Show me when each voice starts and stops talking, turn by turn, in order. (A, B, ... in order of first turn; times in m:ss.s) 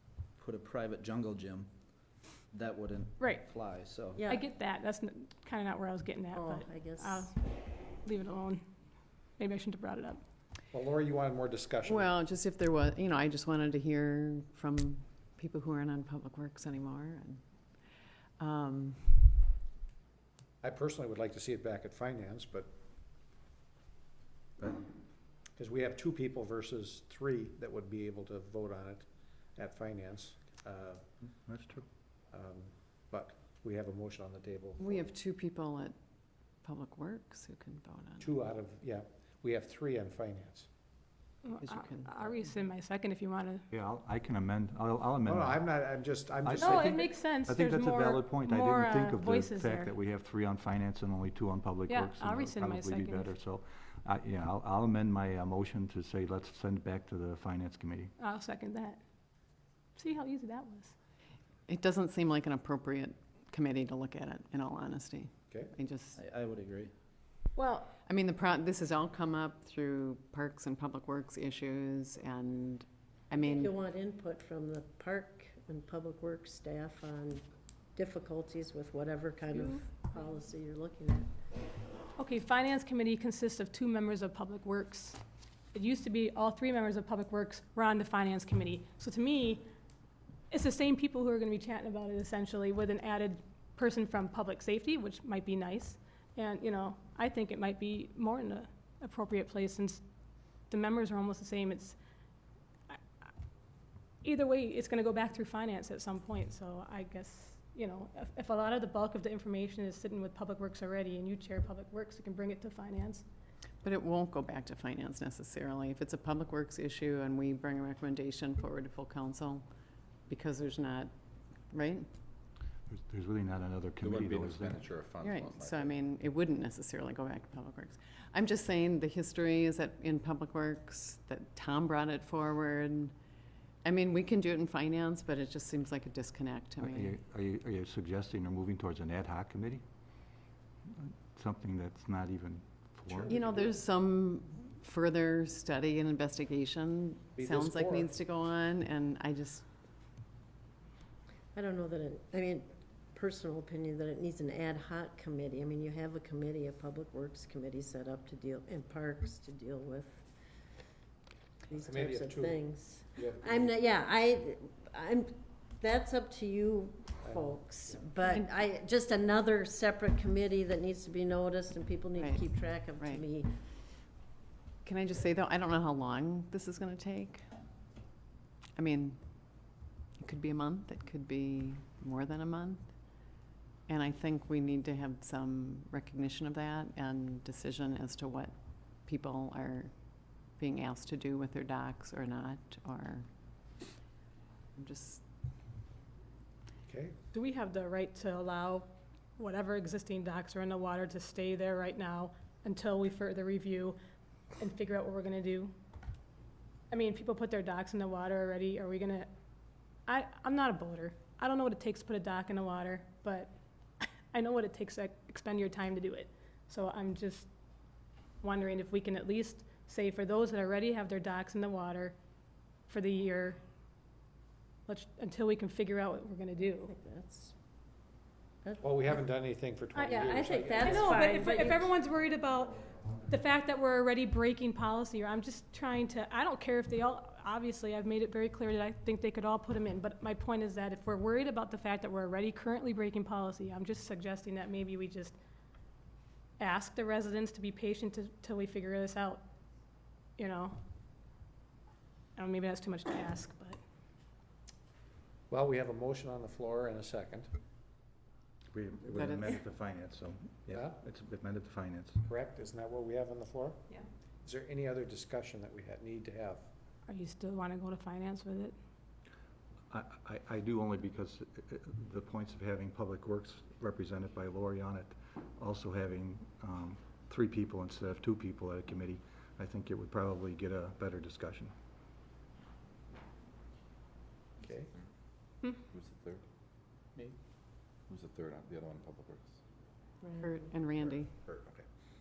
0:00.4-0:01.7 A
0:02.5-0:04.2 A
0:04.1-0:04.4 B
0:04.2-0:07.4 C
0:06.3-0:07.4 B
0:08.0-0:08.6 C
0:09.4-0:10.2 C
0:10.7-0:12.1 D
0:11.8-0:17.7 E
0:18.4-0:19.3 E
0:20.6-0:22.7 D
0:25.6-0:31.1 D
0:31.4-0:31.8 F
0:32.3-0:35.0 D
0:34.8-0:35.9 E
0:36.6-0:38.3 E
0:38.2-0:40.7 D
0:41.4-0:43.6 C
0:41.6-0:42.1 E
0:43.7-0:45.7 F
0:45.2-0:47.1 D
0:46.4-0:58.1 F
0:46.6-0:49.9 C
0:51.9-0:53.3 C
0:58.2-0:59.0 C
1:00.0-1:00.9 C
1:01.7-1:06.2 E
1:06.2-1:06.9 A
1:07.6-1:08.0 C
1:08.0-1:13.7 E
1:13.3-1:17.4 B
1:17.9-1:21.3 B
1:19.5-1:19.8 C
1:22.2-1:25.2 C
1:25.7-1:29.6 C
1:30.5-1:40.0 C
1:40.7-1:42.0 C
1:42.9-1:43.3 C
1:44.2-1:53.2 C
1:53.8-1:59.6 E
2:00.3-2:01.1 E
2:01.7-2:02.0 E
2:02.9-2:04.8 F
2:04.0-2:06.0 G
2:05.2-2:13.1 E
2:13.8-2:17.1 E
2:16.8-2:19.8 F
2:21.0-2:23.4 F
2:23.1-2:23.8 D
2:23.3-2:29.6 E
2:27.4-2:28.1 D
2:31.5-2:40.3 B
2:41.7-2:53.5 B
2:41.8-2:43.7 D
2:47.2-2:48.0 D
2:52.2-2:52.4 E
2:53.0-2:53.2 E
2:54.8-2:57.4 E
2:58.8-3:13.3 E
3:14.8-3:15.2 E
3:16.8-3:17.2 D
3:17.3-3:24.0 C
3:24.6-3:25.7 C
3:26.9-3:29.3 C
3:30.0-3:37.5 C
3:38.4-3:42.2 C
3:42.9-3:43.6 C
3:44.9-3:46.9 C
3:46.8-3:47.5 B
3:48.6-3:49.1 B
3:48.8-3:51.2 D
3:49.9-4:05.4 C
3:50.0-3:51.9 B
4:06.6-4:09.4 C
4:10.4-4:10.8 C
4:12.4-4:13.8 C
4:15.5-4:17.5 D
4:18.7-4:22.2 F
4:19.1-4:19.6 E
4:20.7-4:21.0 D
4:22.2-4:23.8 D
4:24.4-4:26.7 D
4:27.0-4:28.7 C
4:29.9-4:41.7 F
4:44.6-4:44.9 D
4:45.9-4:46.4 G
4:48.1-4:49.6 G
4:50.2-4:50.6 B
4:50.4-4:51.3 E
4:50.8-4:51.8 G